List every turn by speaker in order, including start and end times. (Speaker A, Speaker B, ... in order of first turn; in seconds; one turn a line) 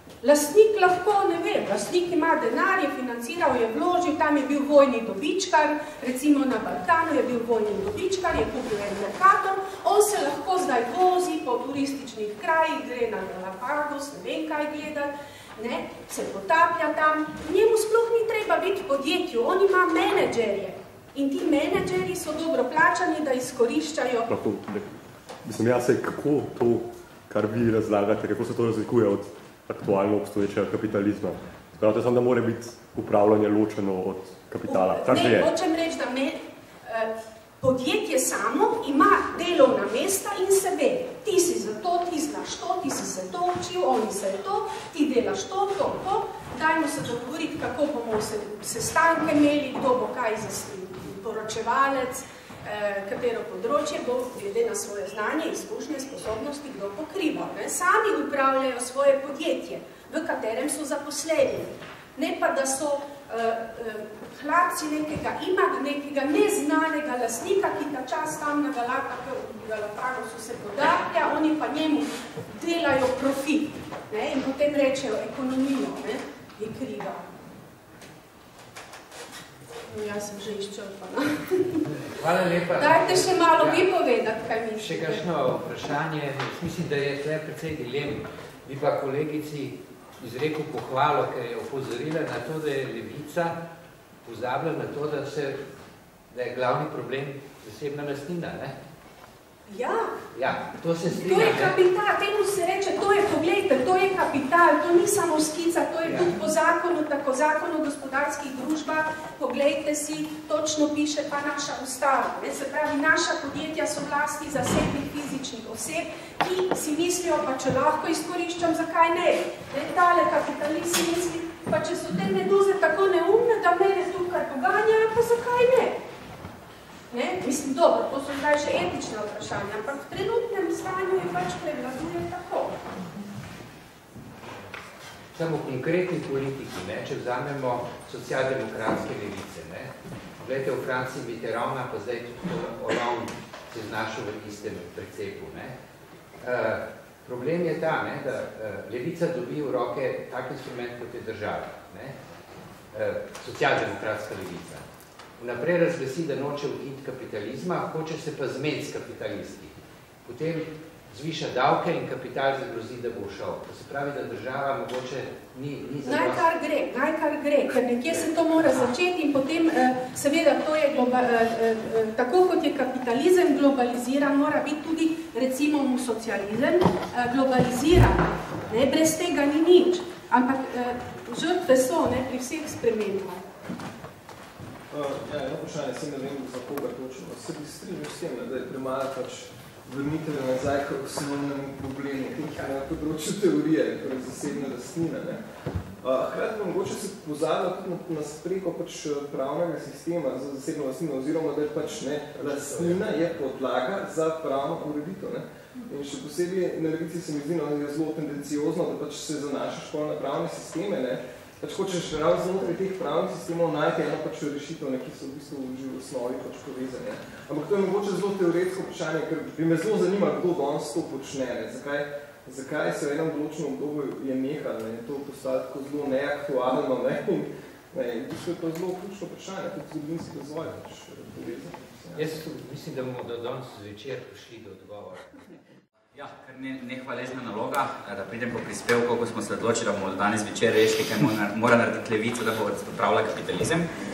Speaker A: 0.2-24.3
Speaker B: 24.3-35.5
Speaker A: 34.7-77.2
Speaker A: 79.9-81.9
Speaker C: 81.8-83.9
Speaker A: 82.8-85.2
Speaker C: 84.8-93.6
Speaker C: 94.2-95.6
Speaker C: 96.3-98.7
Speaker A: 99.7-100.1
Speaker C: 100.3-101.8
Speaker A: 101.2-126.0
Speaker C: 106.0-106.3
Speaker A: 127.1-132.8
Speaker C: 135.3-145.8
Speaker C: 146.4-152.2
Speaker C: 152.9-154.8
Speaker C: 155.4-166.4
Speaker A: 166.0-183.4
Speaker D: 184.9-195.4
Speaker D: 196.0-232.3
Speaker C: 202.4-203.0
Speaker C: 232.1-235.3
Speaker E: 236.1-243.8